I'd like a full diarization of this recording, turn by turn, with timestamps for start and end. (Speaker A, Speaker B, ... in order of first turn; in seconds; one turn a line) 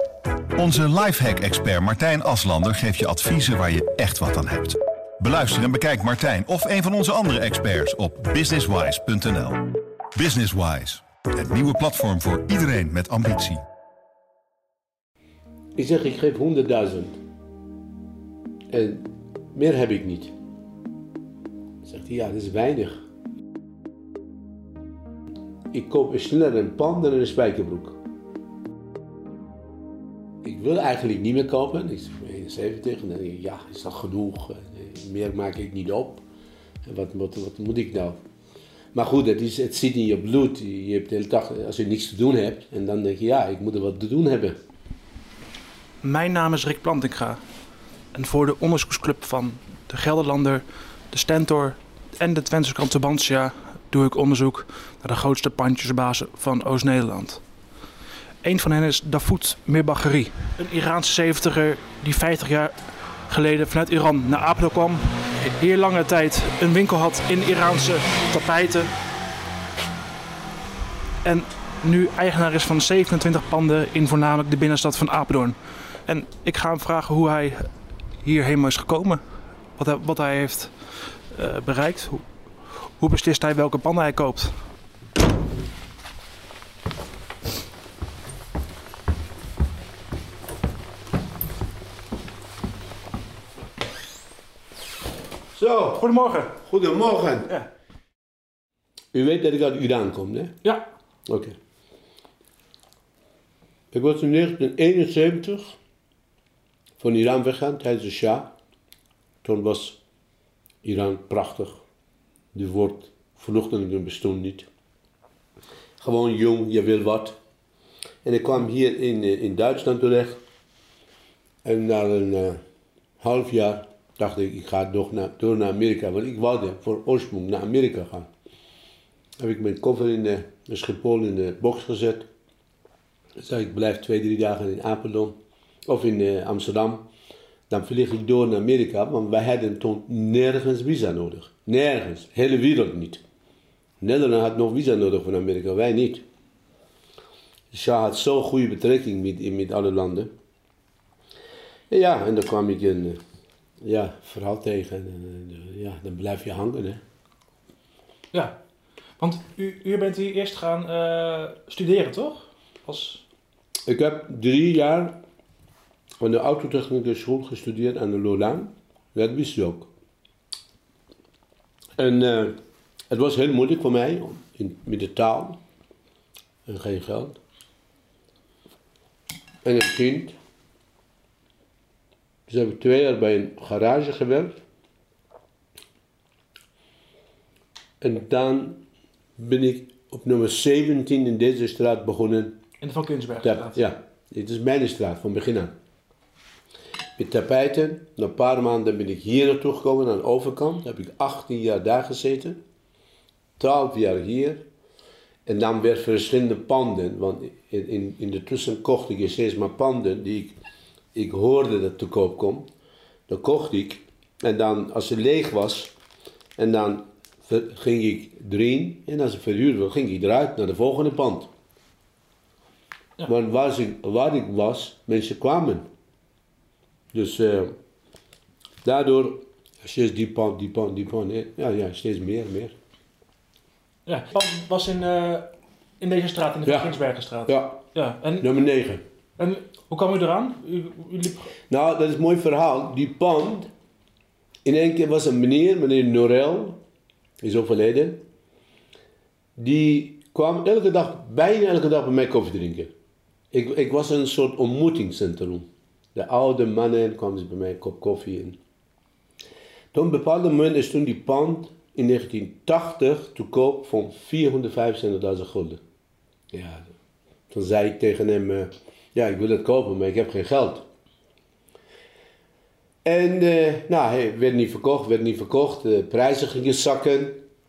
Speaker A: 0.6-13.6
Speaker B: 15.8-17.2
Speaker B: 18.7-20.3
Speaker B: 21.8-23.0
Speaker B: 25.7-28.0
Speaker B: 30.4-36.2
Speaker B: 36.9-38.2
Speaker B: 38.9-44.6
Speaker C: 46.0-47.4
Speaker C: 48.1-57.4
Speaker C: 58.4-62.8
Speaker C: 63.3-68.9
Speaker C: 71.2-77.7
Speaker C: 78.2-79.2
Speaker C: 79.8-84.5
Speaker B: 95.5-97.5
Speaker C: 96.0-96.5
Speaker B: 99.1-100.6
Speaker B: 101.3-101.5
Speaker B: 103.9-105.8
Speaker B: 107.0-108.5
Speaker B: 109.4-110.0
Speaker B: 110.8-111.8
Speaker B: 112.5-114.7
Speaker B: 116.0-117.4
Speaker B: 118.2-120.4
Speaker B: 121.6-122.6
Speaker B: 123.2-128.3
Speaker B: 129.4-132.3
Speaker B: 133.4-135.4
Speaker B: 135.9-137.1
Speaker B: 137.7-143.2
Speaker B: 144.0-146.2
Speaker B: 147.7-150.3
Speaker B: 151.9-153.2
Speaker B: 153.8-157.0
Speaker C: 159.2-163.2
Speaker B: 163.9-165.2
Speaker B: 166.2-169.9
Speaker B: 172.0-172.6
Speaker B: 173.1-175.6
Speaker B: 176.7-177.4
Speaker B: 179.6-180.3
Speaker B: 182.5-184.6
Speaker B: 188.0-188.8
Speaker B: 189.4-192.6
Speaker C: 192.8-193.8
Speaker B: 193.4-195.7
Speaker B: 197.2-202.6
Speaker B: 203.6-204.7
Speaker B: 205.5-210.6
Speaker B: 211.1-212.7
Speaker B: 213.3-215.9
Speaker B: 216.6-221.5
Speaker B: 223.3-225.9
Speaker B: 227.1-227.7
Speaker B: 228.8-232.8
Speaker C: 234.1-235.5
Speaker C: 236.0-238.5
Speaker B: 236.7-237.9
Speaker B: 238.4-239.0
Speaker C: 239.4-241.5
Speaker B: 241.7-243.7
Speaker B: 244.7-246.8
Speaker B: 247.4-248.2
Speaker B: 249.6-252.9
Speaker B: 253.5-258.6
Speaker B: 259.9-265.8
Speaker B: 266.5-266.9
Speaker B: 267.5-270.9
Speaker B: 273.1-277.4